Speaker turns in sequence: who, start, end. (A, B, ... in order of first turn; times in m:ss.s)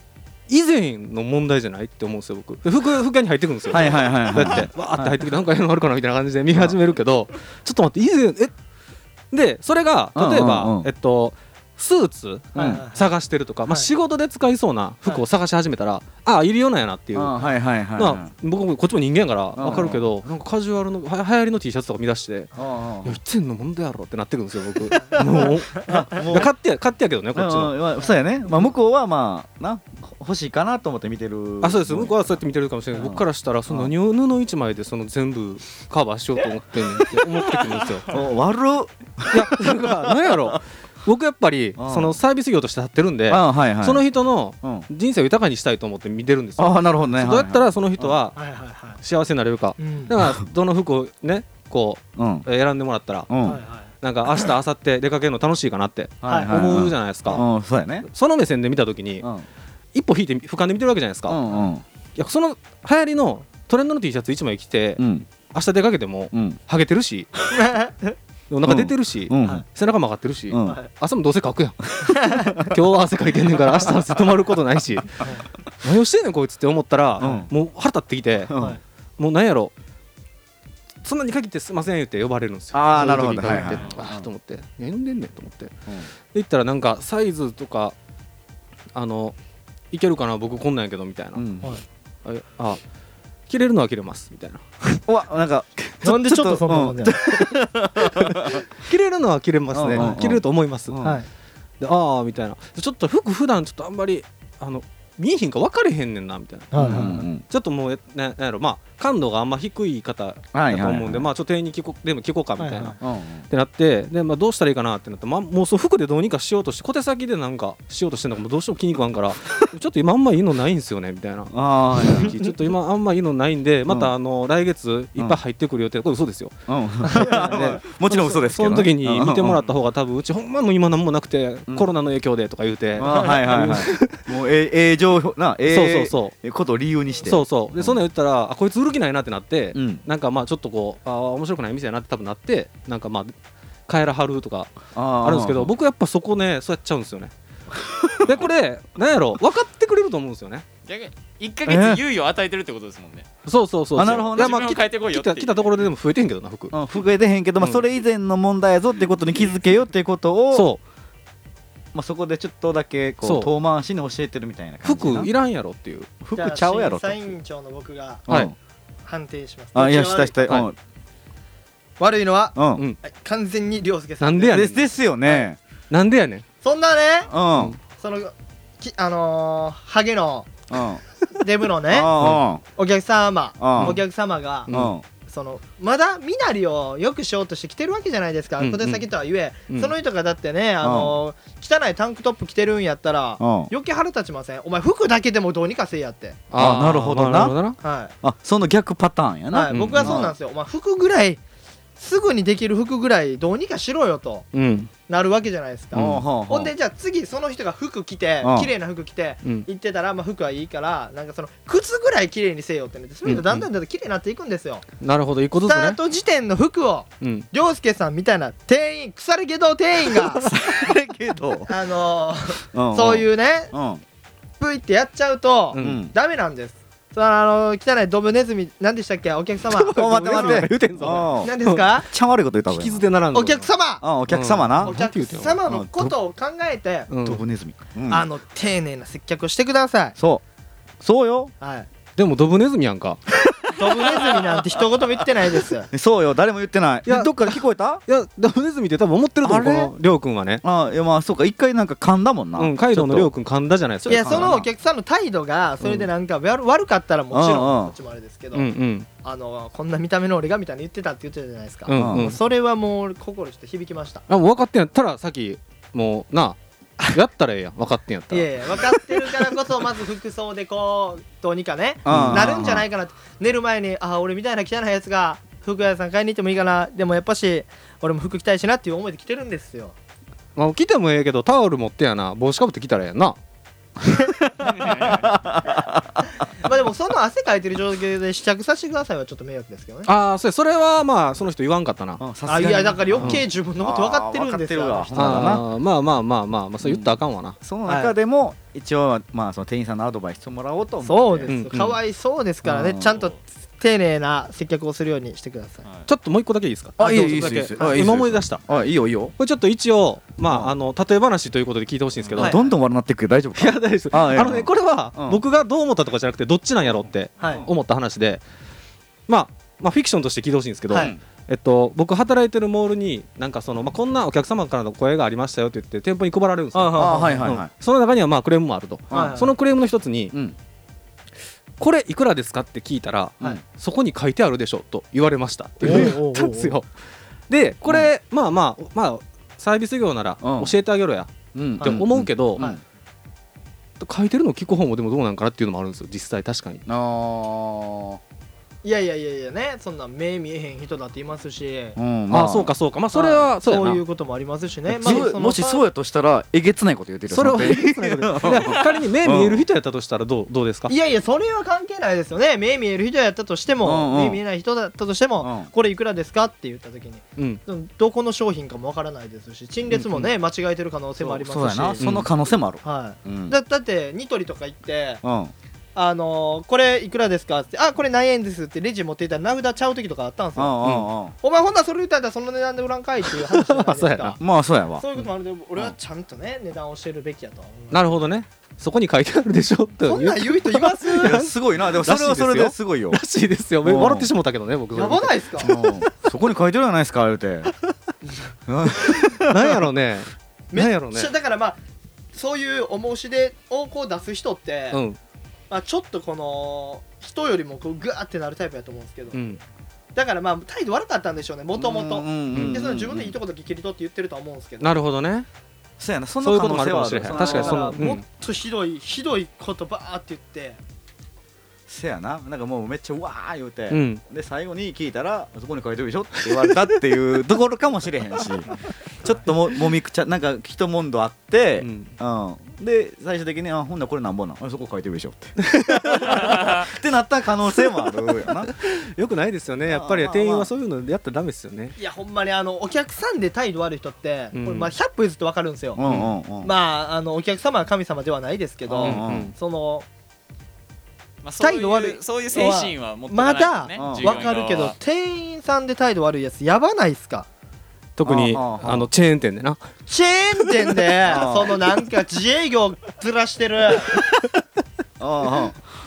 0:00.5-0:08.5 A
0:03.7-0:05.2 B
0:09.3-0:17.4 A
0:10.1-0:10.9 B
0:12.5-0:12.8 B
0:12.6-0:13.0 C
0:17.1-0:18.3 B
0:18.0-0:22.5 A
0:19.6-0:20.1 B
0:22.5-0:23.2 B
0:23.0-0:27.7 A
0:25.2-0:26.5 B
0:27.3-0:32.4 B
0:31.6-0:38.1 A
0:33.0-0:33.9 B
0:38.1-0:40.6 B
0:39.3-0:48.4 A
0:41.8-0:42.2 B
0:43.3-0:44.0 B
0:44.6-0:44.9 B
0:46.6-0:48.2 B
0:48.3-0:49.0 C
0:49.0-0:53.3 A
0:49.8-0:50.1 C
0:52.2-0:52.5 B
0:53.3-0:53.6 B
0:53.4-0:53.9 C
0:53.9-0:57.4 A
0:56.2-0:58.1 B
0:56.2-0:56.5 C
0:58.1-0:59.3 A
0:59.9-1:01.4 A
1:01.3-1:01.8 B
1:02.2-1:07.3 A
1:05.0-1:05.3 B
1:06.3-1:06.6 B
1:07.5-1:08.2 C
1:08.5-1:15.2 A
1:08.6-1:09.6 B
1:10.5-1:10.8 B
1:12.1-1:12.5 B
1:12.2-1:12.6 C
1:15.8-1:18.5 A
1:17.2-1:17.5 B
1:18.5-1:18.8 B
1:19.2-1:19.7 A
1:21.0-1:25.7 A
1:22.7-1:24.3 B
1:26.3-1:27.9 A
1:28.9-1:29.4 A
1:29.9-1:31.4 A
1:31.3-1:31.7 B
1:32.2-1:32.8 A
1:33.5-1:34.6 A
1:35.0-1:38.6 B
1:36.0-1:37.2 C
1:38.8-1:41.0 A
1:39.7-1:41.2 B
1:40.0-1:40.2 C
1:41.0-1:41.3 C
1:41.8-1:53.0 A
1:46.7-1:47.2 C
1:46.8-1:47.4 B
1:50.5-1:51.3 B
1:52.6-1:53.0 C
1:53.0-1:53.4 B
1:53.5-2:06.5 A
2:01.5-2:02.4 B
2:06.7-2:09.6 B
2:07.0-2:07.8 C
2:07.1-2:14.2 A
2:13.0-2:18.0 B
2:13.0-2:13.6 C
2:15.7-2:16.3 A
2:17.2-2:23.3 A
2:19.7-2:20.0 B
2:23.9-2:27.3 A
2:24.9-2:25.7 B
2:27.8-2:28.3 B
2:28.2-2:30.6 A
2:30.8-2:33.3 D
2:31.6-2:32.0 B
2:33.4-2:36.7 A
2:33.9-2:34.6 B
2:34.1-2:35.9 D
2:36.7-2:40.7 B
2:40.5-2:40.8 A
2:41.9-2:45.3 B
2:43.2-2:43.5 A
2:44.8-2:46.1 A
2:46.2-2:47.3 B
2:46.3-2:48.2 C
2:48.3-2:48.5 B
2:49.0-2:50.4 C
2:49.7-2:50.8 B
2:52.0-2:54.7 C
2:52.5-2:52.8 B
2:54.2-2:54.8 A
2:54.5-2:55.6 B
2:55.9-2:56.4 A
2:56.6-2:57.3 C
2:57.3-2:57.8 B
2:58.0-3:00.6 C
3:00.7-3:01.0 B
3:01.4-3:02.1 C
3:01.9-3:02.6 B
3:02.2-3:02.4 A
3:02.7-3:04.7 C
3:03.6-3:04.0 B
3:04.7-3:04.9 A
3:04.7-3:05.0 B
3:05.2-3:16.4 C
3:08.6-3:09.1 A
3:10.8-3:11.2 B
3:13.4-3:13.7 B
3:16.5-3:17.8 A
3:16.6-3:17.6 B
3:17.8-3:18.1 C
3:18.2-3:20.3 B
3:19.5-3:21.4 C
3:19.7-3:20.2 A
3:22.0-3:24.4 C
3:24.5-3:24.9 A
3:25.1-3:34.8 C
3:25.9-3:26.7 B
3:28.4-3:28.7 B
3:33.2-3:33.7 A
3:35.0-3:36.0 A
3:35.6-3:40.5 C
3:37.2-3:37.5 A
3:40.3-3:41.7 B
3:41.7-3:43.7 C
3:42.7-3:44.0 B
3:44.6-3:52.1 C
3:45.7-3:46.0 A
3:45.8-3:46.1 B
3:49.7-3:51.8 A
3:50.0-3:53.0 B
3:52.7-3:53.7 A
3:53.3-3:54.0 C
3:54.0-3:54.9 B
3:54.3-3:56.1 A
3:54.8-3:57.1 C
3:57.1-3:57.4 A
3:57.2-3:58.3 B
3:58.1-4:00.1 C
4:00.2-4:00.4 B
4:01.0-4:01.5 B
4:01.6-4:01.9 C
4:02.2-4:03.2 A
4:03.7-4:05.9 C
4:05.9-4:08.0 B
4:07.0-4:10.6 A
4:09.4-4:09.9 B
4:10.6-4:13.3 B
4:12.6-4:14.5 A
4:14.0-4:14.7 B
4:14.0-4:18.7 C
4:15.8-4:16.1 A
4:17.3-4:17.9 B
4:18.5-4:19.1 A
4:19.2-4:24.2 C
4:21.9-4:22.4 A
4:21.9-4:22.3 B
4:24.3-4:26.6 A
4:27.1-4:29.5 A
4:28.3-4:40.0 C
4:32.0-4:32.8 B
4:32.1-4:32.5 A
4:40.6-4:43.4 A
4:44.6-4:46.3 B
4:44.6-4:45.3 D
4:46.6-4:50.1 C
4:50.0-4:52.2 A
4:52.2-4:55.6 B
4:52.5-4:55.6 C
4:55.1-4:57.6 A
4:56.8-5:01.5 B
4:57.8-4:58.1 C
5:01.0-5:05.8 C
5:01.5-5:02.0 A
5:02.6-5:03.2 B
5:03.0-5:03.4 D
5:05.8-5:06.1 D
5:06.1-5:08.6 A
5:07.0-5:09.3 B
5:09.4-5:12.6 A
5:10.4-5:10.7 B
5:12.3-5:15.4 B
5:12.4-5:12.7 C
5:13.6-5:18.4 A
5:17.4-5:17.6 C
5:19.3-5:30.3 A
5:20.9-5:21.2 B
5:26.7-5:27.5 C
5:27.0-5:27.7 B
5:29.1-5:29.4 B
5:29.1-5:29.5 C
5:31.8-5:36.9 A
5:35.8-5:36.8 C
5:35.8-5:36.1 B
5:37.5-5:42.6 A
5:40.4-5:40.8 B
5:41.5-5:42.8 B
5:44.0-5:46.8 A
5:46.9-5:48.2 B
5:48.8-5:52.0 C
5:52.0-5:52.7 B
5:52.3-5:54.0 A
5:53.1-5:55.8 C
5:54.9-5:55.3 A
5:55.0-5:59.6 B
5:57.3-6:00.9 A
6:00.9-6:12.0 C
6:03.8-6:04.4 B
6:05.4-6:05.7 B
6:07.4-6:07.6 A
6:09.9-6:10.2 B
6:11.2-6:13.6 B
6:12.0-6:12.3 A
6:12.8-6:15.2 C
6:15.2-6:15.5 B
6:15.9-6:20.7 C
6:20.6-6:21.3 B
6:21.4-6:24.4 C
6:23.5-6:24.4 A
6:24.4-6:25.0 B
6:25.0-6:28.3 C
6:27.9-6:35.9 A
6:30.0-6:31.4 C
6:31.2-6:33.2 B
6:33.8-6:34.3 B
6:34.9-6:35.7 C
6:35.6-6:37.7 B
6:38.7-6:39.8 B
6:39.5-6:41.3 A
6:40.7-6:41.8 C
6:42.3-6:45.0 C
6:44.9-6:45.2 A
6:45.7-6:49.4 C
6:49.3-6:49.6 A
6:50.1-6:55.0 C
6:51.8-6:53.3 B
6:52.5-6:52.8 A
6:54.8-6:55.5 A
6:56.0-6:58.0 B
6:56.4-6:58.2 A
6:57.3-7:00.8 C
7:01.9-7:18.7 B
7:03.9-7:04.2 A
7:06.4-7:07.0 A
7:11.8-7:12.1 A
7:15.6-7:16.8 A
7:18.8-7:22.0 A
7:19.9-7:20.7 B
7:22.0-7:26.0 C
7:24.5-7:24.9 A
7:26.0-7:26.7 B
7:26.0-7:26.3 A
7:26.6-7:30.0 C
7:28.8-7:29.5 B
7:29.0-7:29.5 A
7:31.4-7:34.9 D
7:31.6-7:37.5 C
7:34.0-7:34.4 B
7:38.2-7:39.9 A
7:38.2-7:39.1 B
7:40.1-7:44.2 C
7:41.2-7:41.8 B
7:45.2-7:46.0 B